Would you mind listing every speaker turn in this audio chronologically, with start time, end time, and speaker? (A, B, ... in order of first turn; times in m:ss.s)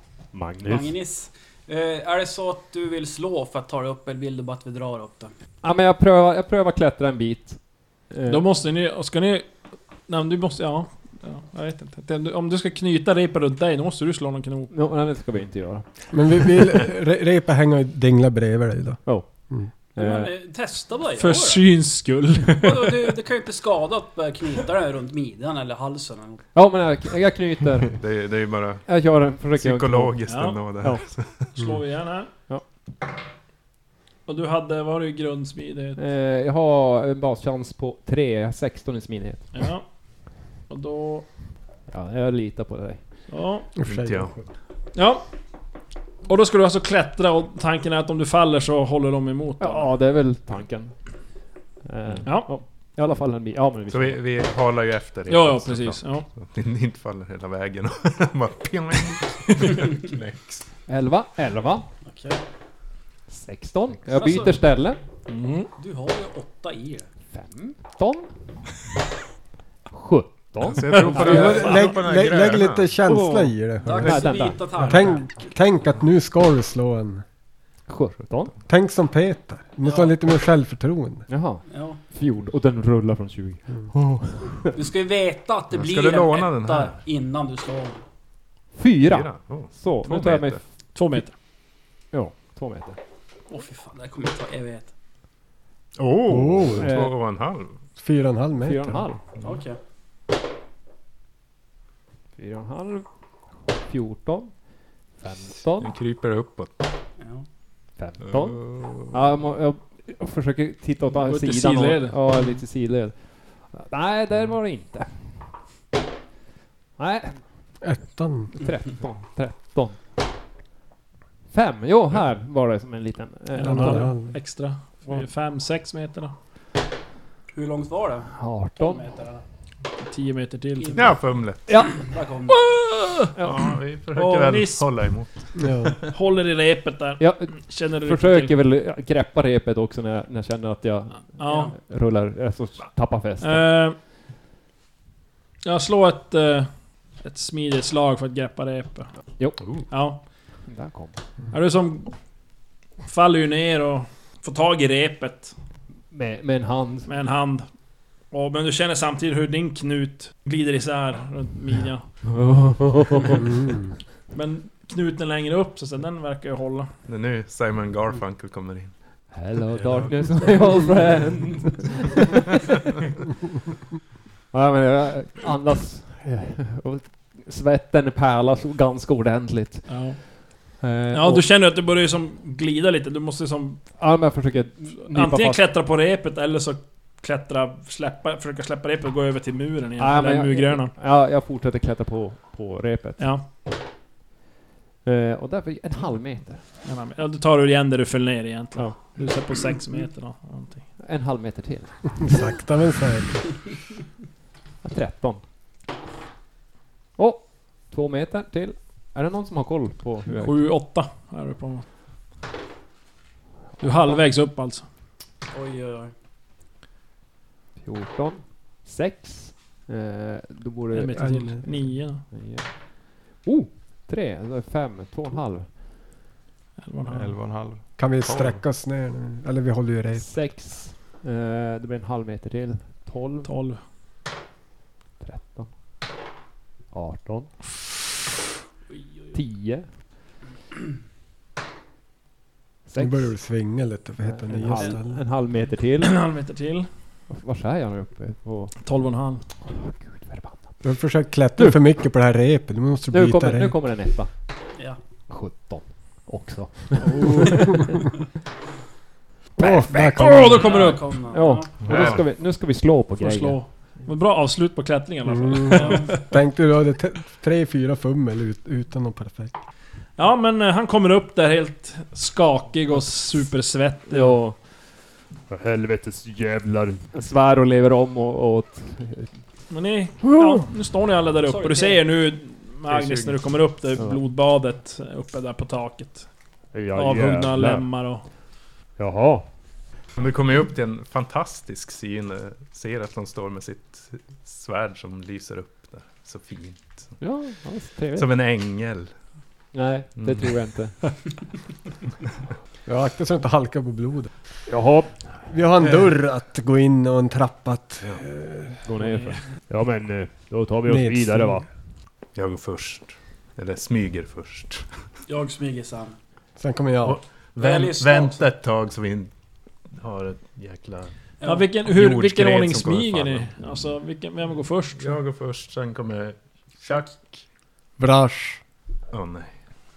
0:00.3-0:00.9 A
0:00.6-0:05.3 B
0:05.6-0:08.5 A
0:08.3-0:09.5 C
0:10.1-0:14.7 C
0:14.7-0:15.8 A
0:16.1-0:19.7 D
0:19.9-0:20.4 A
0:20.0-0:21.7 B
0:21.2-0:23.1 C
0:22.6-0:26.4 B
0:26.5-0:27.9 A
0:28.0-0:28.9 E
0:28.8-0:30.2 A
0:29.5-0:31.5 E
0:30.3-0:30.6 C
0:31.6-0:32.3 C
0:34.2-0:36.0 C
0:36.0-0:39.5 A
0:39.5-0:41.3 C
0:41.9-0:43.2 A
0:43.3-0:43.7 C
0:43.8-0:44.4 D
0:43.8-0:44.3 E
0:44.9-0:45.2 C
0:46.3-0:49.9 C
0:49.6-0:51.0 A
0:51.8-0:54.2 A
0:52.2-0:52.5 C
0:53.9-1:00.6 E
0:55.3-0:56.2 C
1:00.9-1:01.8 A
1:02.0-1:02.4 B
1:03.3-1:05.0 A
1:04.1-1:04.6 B
1:05.3-1:05.7 C
1:05.8-1:07.1 B
1:07.3-1:08.3 A
1:09.9-1:11.8 A
1:10.6-1:12.9 E
1:10.8-1:11.7 C
1:11.2-1:17.2 D
1:13.0-1:14.7 A
1:13.8-1:15.4 B
1:17.9-1:18.5 A
1:18.7-1:21.3 D
1:19.8-1:20.1 B
1:21.3-1:24.9 A
1:21.7-1:22.0 B
1:24.7-1:28.0 B
1:25.7-1:27.0 E
1:28.8-1:30.6 A
1:29.1-1:30.6 E
1:30.9-1:31.3 C
1:32.1-1:33.0 A
1:33.5-1:34.9 B
1:36.0-1:37.8 E
1:36.3-1:36.9 D
1:36.8-1:37.1 A
1:38.0-1:39.0 D
1:38.6-1:39.2 A
1:39.4-1:39.8 B
1:42.4-1:43.0 A
1:43.7-1:44.5 A
1:45.1-1:45.9 A
1:45.8-1:46.8 E
1:47.2-1:47.4 B
1:48.0-1:55.4 A
1:48.2-1:49.2 E
1:51.2-1:52.2 C
1:57.0-1:57.4 A
1:57.8-1:58.6 D
1:58.5-2:00.0 A
2:01.5-2:04.2 A
2:03.5-2:06.3 C
2:03.6-2:04.3 D
2:07.5-2:09.4 B
2:08.3-2:09.1 A
2:10.0-2:11.0 C
2:10.8-2:11.2 B
2:10.9-2:11.8 E
2:11.7-2:11.9 A
2:11.8-2:12.7 B
2:12.5-2:13.4 C
2:13.4-2:13.7 A
2:13.4-2:15.9 E
2:14.1-2:14.9 C
2:15.6-2:16.0 D
2:16.1-2:18.5 C
2:17.2-2:23.7 A
2:21.3-2:21.7 C
2:21.4-2:21.7 B
2:23.4-2:24.0 C
2:25.6-2:30.2 C
2:29.6-2:29.8 E
2:30.6-2:31.2 A
2:31.5-2:32.1 C
2:33.0-2:35.5 C
2:36.1-2:37.1 A
2:37.0-2:37.6 C
2:38.3-2:42.1 C
2:42.3-2:43.5 A
2:43.4-2:43.8 D
2:44.3-2:46.9 C
2:47.0-2:49.0 E
2:49.3-2:52.6 A
2:49.7-2:51.0 E
2:54.5-3:00.3 A
2:59.9-3:00.2 C
3:00.8-3:01.4 A
3:01.1-3:03.9 C
3:04.0-3:05.6 A
3:05.1-3:10.9 C
3:10.0-3:13.6 A
3:13.2-3:13.4 C
3:15.0-3:16.6 A
3:16.8-3:20.8 C
3:18.7-3:19.1 A
3:21.0-3:22.1 A
3:22.2-3:23.6 D
3:24.8-3:25.4 A
3:27.2-3:30.6 A
3:30.4-3:31.8 C
3:33.8-3:34.8 C
3:33.8-3:34.1 A
3:35.5-3:36.1 B
3:37.8-3:45.8 A
3:40.9-3:42.2 C
3:41.2-3:41.5 D
3:46.8-3:47.4 C
3:47.0-3:48.6 F
3:48.0-3:50.3 D
3:50.2-3:53.5 A
3:53.4-3:53.8 C
3:55.2-3:55.7 A
3:56.9-3:57.5 A
3:59.3-3:59.9 A
4:02.8-4:03.3 A
4:03.0-4:05.2 D
4:04.2-4:06.2 A
4:06.0-4:06.9 C
4:07.3-4:08.7 A
4:08.8-4:09.4 C
4:09.6-4:10.8 A
4:10.8-4:13.8 D
4:13.1-4:14.3 A
4:15.3-4:18.0 A
4:17.0-4:17.9 C
4:19.6-4:20.6 D
4:19.6-4:23.6 A
4:19.9-4:21.0 C
4:20.6-4:21.8 B
4:21.8-4:22.2 F
4:23.2-4:26.2 C
4:25.3-4:29.6 D
4:25.7-4:26.1 B
4:30.2-4:34.4 C
4:34.1-4:34.6 A
4:35.5-4:39.3 A
4:39.7-4:46.3 C
4:40.2-4:40.7 A
4:41.4-4:42.0 B
4:42.9-4:43.4 E
4:46.7-4:47.9 A
4:46.9-4:48.2 C
4:49.0-4:49.5 A
4:50.1-4:57.1 E
4:57.2-4:58.3 A
4:58.2-4:59.1 E
4:59.7-5:01.0 A
5:00.2-5:00.5 E
5:02.8-5:04.3 D
5:04.7-5:05.4 A
5:05.5-5:08.9 D
5:08.8-5:11.6 A
5:09.0-5:09.4 C
5:10.8-5:11.6 D
5:12.3-5:14.9 E
5:15.3-5:16.2 B
5:16.6-5:17.2 D
5:17.0-5:19.3 E
5:17.6-5:18.4 B
5:20.0-5:21.1 E
5:21.4-5:21.7 B
5:21.4-5:25.2 C
5:21.8-5:23.5 E
5:25.0-5:27.4 E
5:28.0-5:28.6 D
5:29.1-5:29.5 E